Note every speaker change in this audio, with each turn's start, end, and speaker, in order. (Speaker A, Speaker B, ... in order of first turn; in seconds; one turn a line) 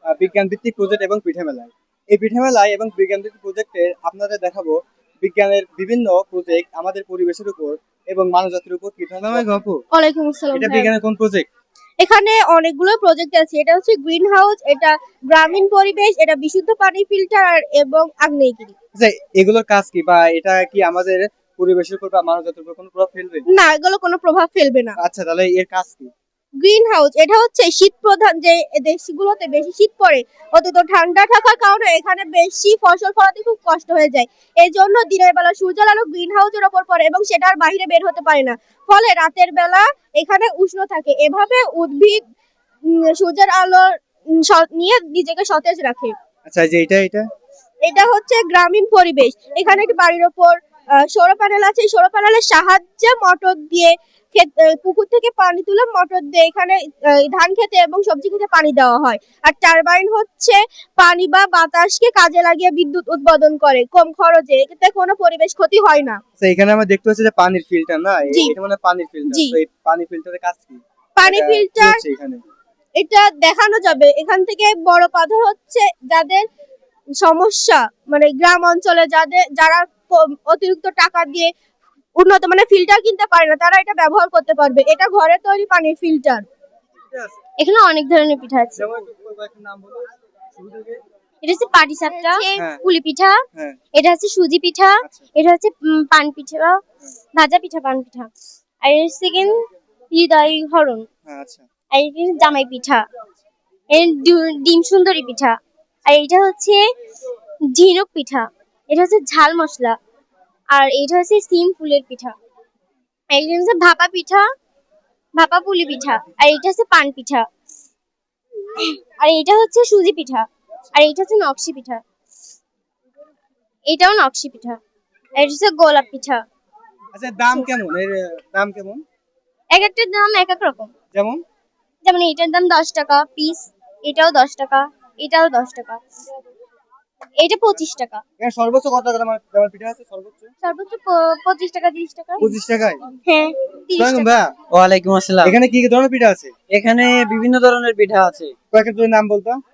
Speaker A: 0.2-9.8
Speaker B: 9.9-10.9
Speaker A: 10.5-11.5
Speaker B: 12.0-18.8
Speaker A: 19.0-23.4
Speaker B: 23.5-24.9
Speaker A: 25.0-26.1
Speaker B: 26.6-42.2
Speaker B: 42.9-46.1
Speaker A: 46.5-47.3
Speaker B: 47.8-66.2
Speaker A: 66.4-72.4
Speaker B: 68.3-68.5
Speaker B: 69.3-69.5
Speaker B: 71.2-72.0
Speaker B: 73.0-76.5
Speaker B: 77.2-81.5
Speaker B: 82.2-86.5
Speaker A: 87.1-87.4
Speaker C: 87.6-88.8
Speaker A: 88.8-91.0
Speaker C: 91.4-93.4
Speaker B: 92.1-92.7
Speaker A: 92.6-92.8
Speaker C: 94.0-96.8
Speaker C: 97.4-98.3
Speaker C: 98.8-99.5
Speaker C: 100.1-101.0
Speaker A: 101.3-101.7
Speaker C: 101.9-103.0
Speaker C: 103.9-106.8
Speaker C: 107.8-110.0
Speaker C: 110.7-112.3
Speaker C: 113.3-114.5
Speaker C: 115.4-117.5
Speaker C: 118.8-122.0
Speaker C: 123.9-124.8
Speaker C: 125.4-126.4
Speaker A: 127.1-129.0
Speaker C: 129.7-130.9
Speaker A: 131.1-131.4
Speaker C: 132.0-136.0
Speaker C: 137.4-138.2
Speaker A: 138.4-140.5
Speaker C: 140.6-142.6
Speaker A: 142.4-143.0
Speaker C: 143.3-144.4
Speaker A: 144.0-144.5
Speaker D: 144.7-145.5
Speaker A: 145.4-146.5
Speaker D: 146.7-148.5
Speaker A: 148.7-149.6